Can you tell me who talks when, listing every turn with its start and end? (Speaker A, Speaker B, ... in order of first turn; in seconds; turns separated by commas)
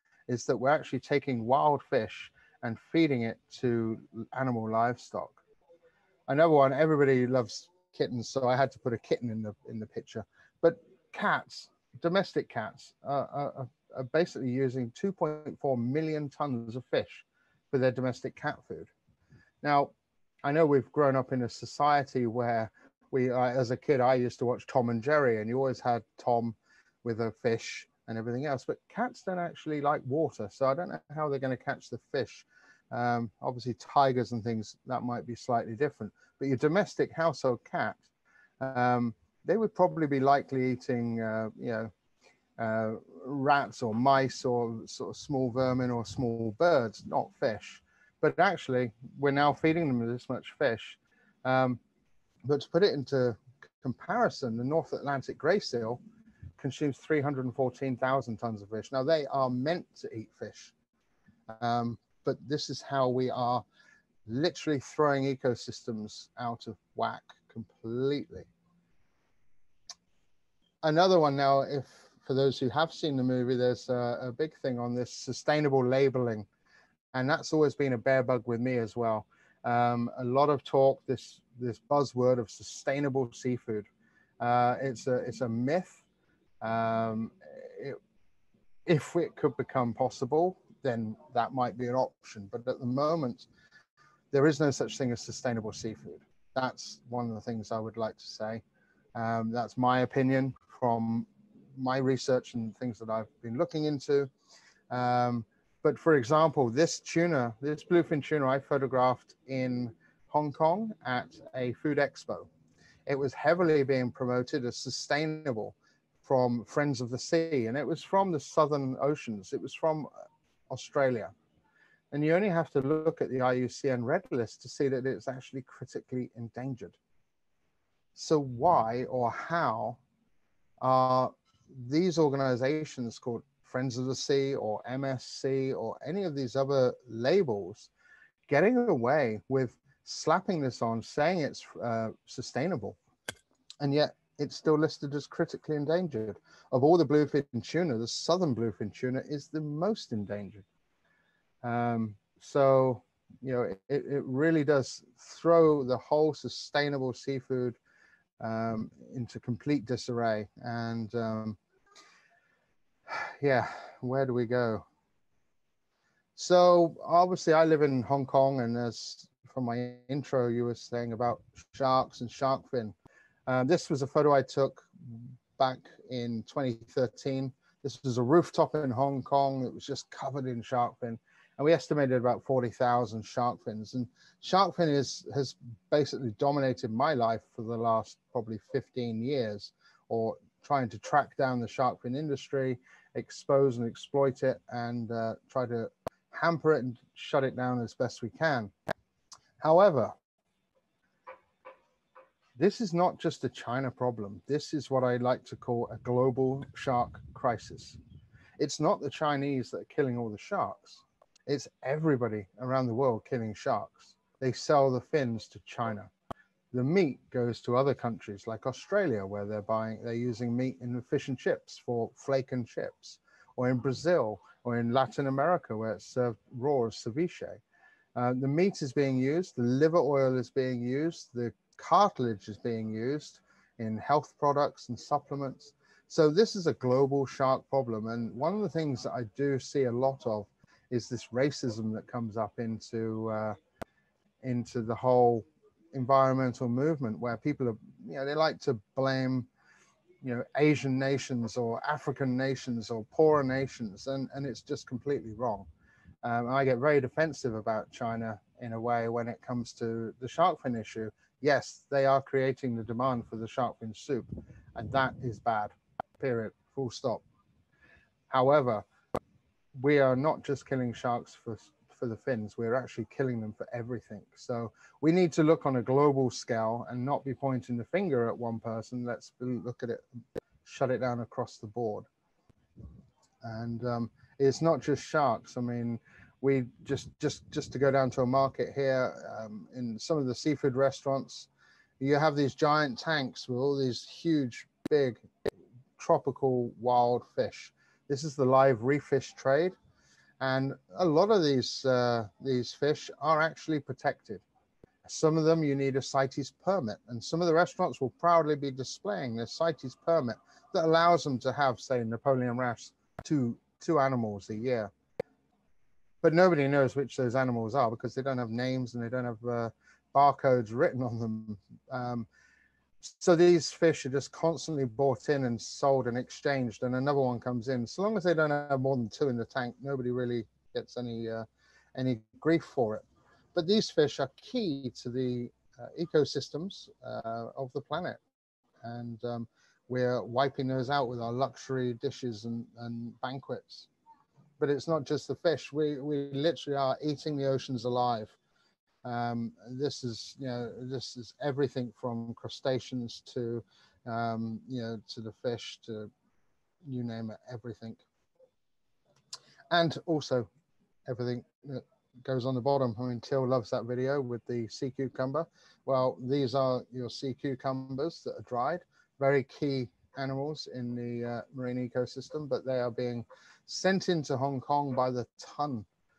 Speaker A: 0.3-5.4, Speaker A: 6.3-18.9, Speaker A: 19.6-19.9, Speaker A: 20.4-38.0, Speaker A: 38.6-41.9, Speaker A: 42.6-51.8, Speaker A: 52.4-56.0, Speaker A: 56.6-60.7, Speaker A: 61.5-63.6, Speaker A: 64.3-68.5, Speaker A: 70.8-76.5, Speaker A: 77.1-83.9, Speaker A: 84.4-86.0, Speaker A: 86.6-88.0, Speaker A: 88.9-93.5, Speaker A: 94.3-98.6, Speaker A: 99.2-104.3, Speaker A: 104.9-112.5, Speaker A: 113.1-120.1, Speaker A: 120.7-121.3, Speaker A: 122.1-127.0, Speaker A: 128.2-130.0, Speaker A: 130.8-137.9, Speaker A: 138.5-143.0, Speaker A: 143.8-150.7, Speaker A: 151.6-157.8, Speaker A: 158.4-161.6, Speaker A: 163.1-164.9, Speaker A: 166.4-172.9, Speaker A: 173.5-198.7, Speaker A: 199.6-200.2, Speaker A: 202.6-208.0, Speaker A: 208.6-216.1, Speaker A: 216.7-227.6, Speaker A: 228.2-243.6, Speaker A: 244.4-249.5, Speaker A: 250.2-255.7, Speaker A: 256.2-267.2, Speaker A: 268.3-268.9, Speaker A: 269.8-280.0, Speaker A: 280.6-282.1, Speaker A: 283.4-291.5, Speaker A: 292.0-295.2, Speaker A: 296.0-299.8, Speaker A: 300.4-304.4, Speaker A: 305.1-314.9, Speaker A: 316.2-322.3, Speaker A: 323.0-333.0, Speaker A: 333.6-338.2, Speaker A: 338.8-343.9, Speaker A: 344.6-348.4, Speaker A: 349.0-356.1, Speaker A: 356.9-358.0, Speaker A: 359.7-360.5, Speaker A: 361.1-375.9